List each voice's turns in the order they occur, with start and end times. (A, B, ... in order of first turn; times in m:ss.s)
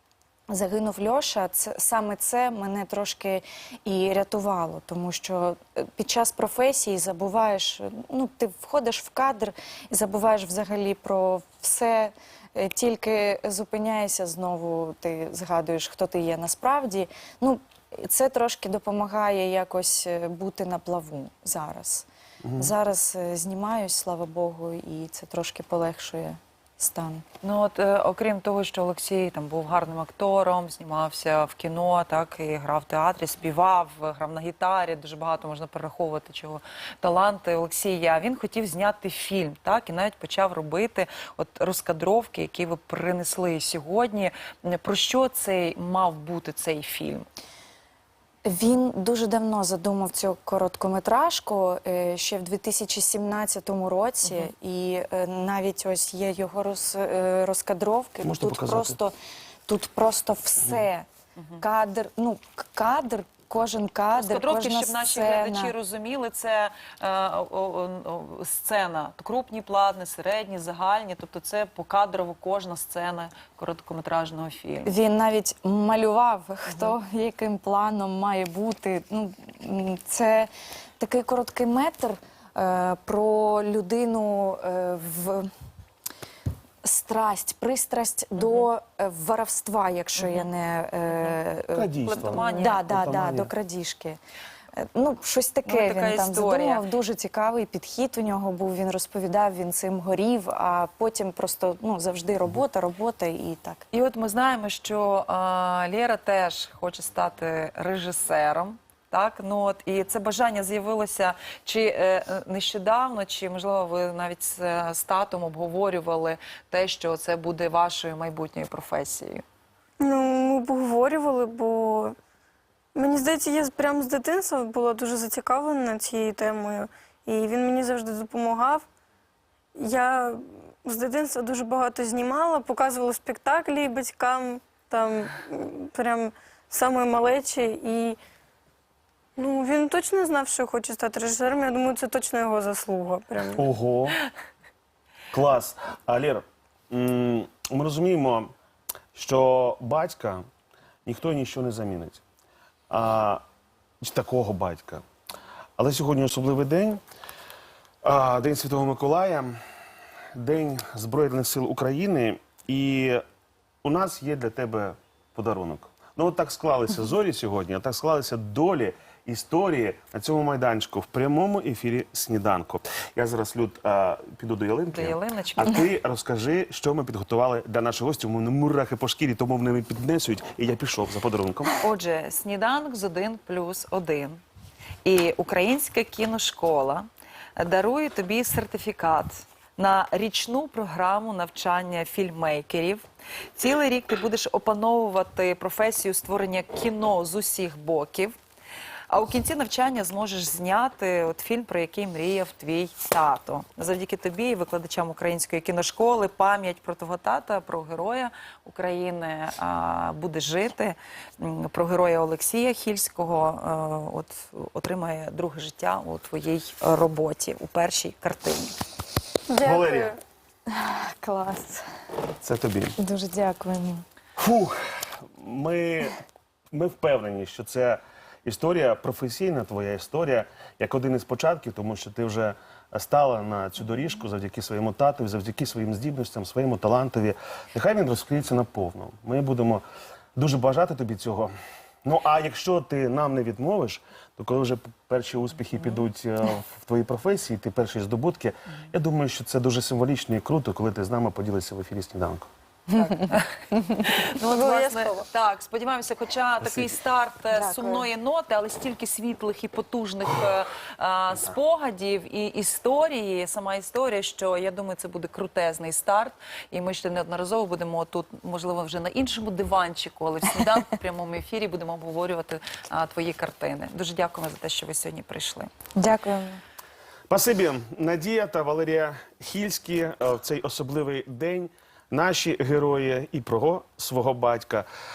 0:00.5-0:27.2 A
0:22.4-0:22.7 B
0:27.4-0:47.3 C
0:48.5-0:59.1 A
0:58.2-0:59.0 B
0:59.7-1:01.1 A
1:01.4-1:01.6 C
1:01.6-1:05.7 A
1:04.1-1:14.9 C
1:14.8-1:25.5 A
1:26.8-1:34.2 A
1:28.4-1:28.7 C
1:30.2-1:30.5 C
1:31.8-1:33.5 B
1:32.0-1:33.0 C
1:34.8-1:43.8 A
1:35.6-1:36.8 C
1:43.9-1:59.4 C
2:00.0-2:02.1 D
2:03.0-2:08.9 D
2:09.8-2:18.2 D
2:19.4-2:23.7 D
2:23.6-2:24.2 B
2:25.3-2:28.5 B
2:29.2-2:30.4 B
2:31.0-2:32.2 B
2:32.9-2:33.4 B
2:34.0-2:35.0 B
2:35.8-2:37.0 B
2:38.0-2:39.5 B
2:40.4-2:43.2 B
2:43.8-3:01.7 B
2:54.9-2:55.9 C
3:01.7-3:04.4 C
3:05.0-3:07.1 C
3:07.6-3:18.4 C
3:19.1-3:38.8 C
3:39.5-3:40.2 D
3:39.7-3:40.1 B
3:40.7-3:41.8 A
3:42.4-3:43.0 B
3:43.0-3:44.0 A
3:44.4-3:44.8 B
3:45.4-3:46.2 B
3:46.7-3:59.8 B
4:00.4-4:01.5 B
4:02.0-4:12.5 B
4:12.9-4:35.7 C
4:14.6-4:15.2 D
4:17.5-4:18.1 A
4:36.0-4:36.6 A
4:37.3-4:44.9 B